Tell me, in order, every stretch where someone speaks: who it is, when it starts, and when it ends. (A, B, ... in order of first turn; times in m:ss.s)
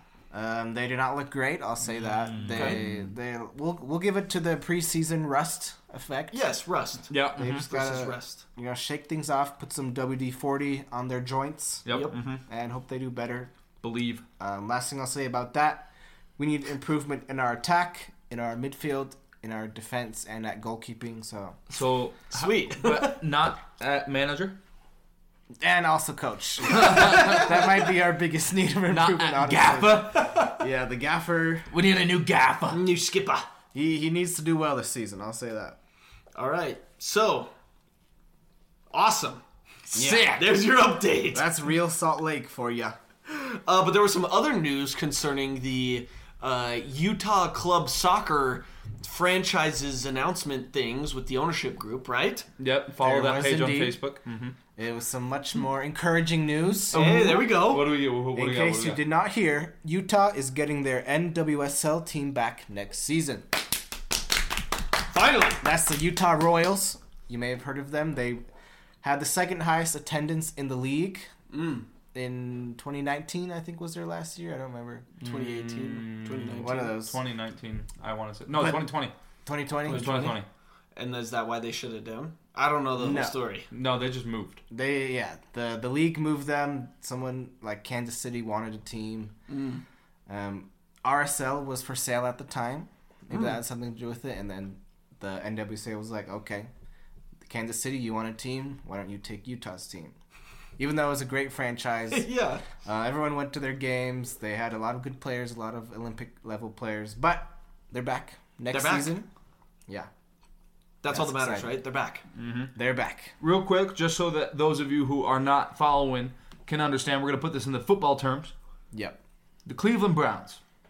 0:00.3-0:06.4 A
0:02.2-0:03.0 B
0:02.4-0:02.8 C
0:06.3-0:08.4 C
0:07.1-0:07.6 B
0:07.4-0:13.5 A
0:11.8-0:12.4 B
0:11.9-0:12.2 C
0:13.8-0:14.2 B
0:14.4-0:21.6 A
0:21.7-0:24.6 B
0:22.3-0:23.2 C
0:25.6-0:31.7 A
0:26.7-0:27.8 B
0:28.9-0:30.3 B
0:30.1-0:30.6 C
0:31.7-0:32.8 B
0:32.7-0:33.4 C
0:33.7-0:35.8 A
0:36.3-0:37.5 C
0:38.9-0:39.4 C
0:39.9-0:40.4 B
0:39.9-0:40.4 A
0:40.3-0:41.4 C
0:41.3-0:43.0 A
0:43.3-0:52.5 C
0:52.6-0:54.6 B
0:53.0-0:54.0 A
0:54.8-0:57.4 A
0:56.9-0:57.9 C
0:56.9-0:59.0 B
0:58.3-1:03.6 A
1:05.1-1:05.6 C
1:05.6-1:08.4 A
1:09.0-1:11.3 A
1:11.5-1:11.8 C
1:12.1-1:15.1 A
1:15.2-1:19.1 B
1:15.2-1:17.0 C
1:16.6-1:17.2 A
1:18.5-1:18.9 A
1:19.4-1:20.1 A
1:19.8-1:20.4 C
1:19.9-1:20.4 B
1:20.9-1:23.7 C
1:23.0-1:23.4 A
1:23.7-1:24.6 B
1:24.7-1:29.3 A
1:29.5-1:29.8 C
1:30.3-1:36.7 A
1:37.4-1:40.2 A
1:40.8-1:49.3 A
1:42.1-1:42.6 C
1:48.7-1:49.1 C
1:51.0-1:52.2 C
1:51.1-1:51.7 A
1:52.3-1:52.7 B
1:52.7-1:53.3 A
1:53.4-1:58.5 B
1:58.9-1:59.2 A
1:59.6-2:00.6 B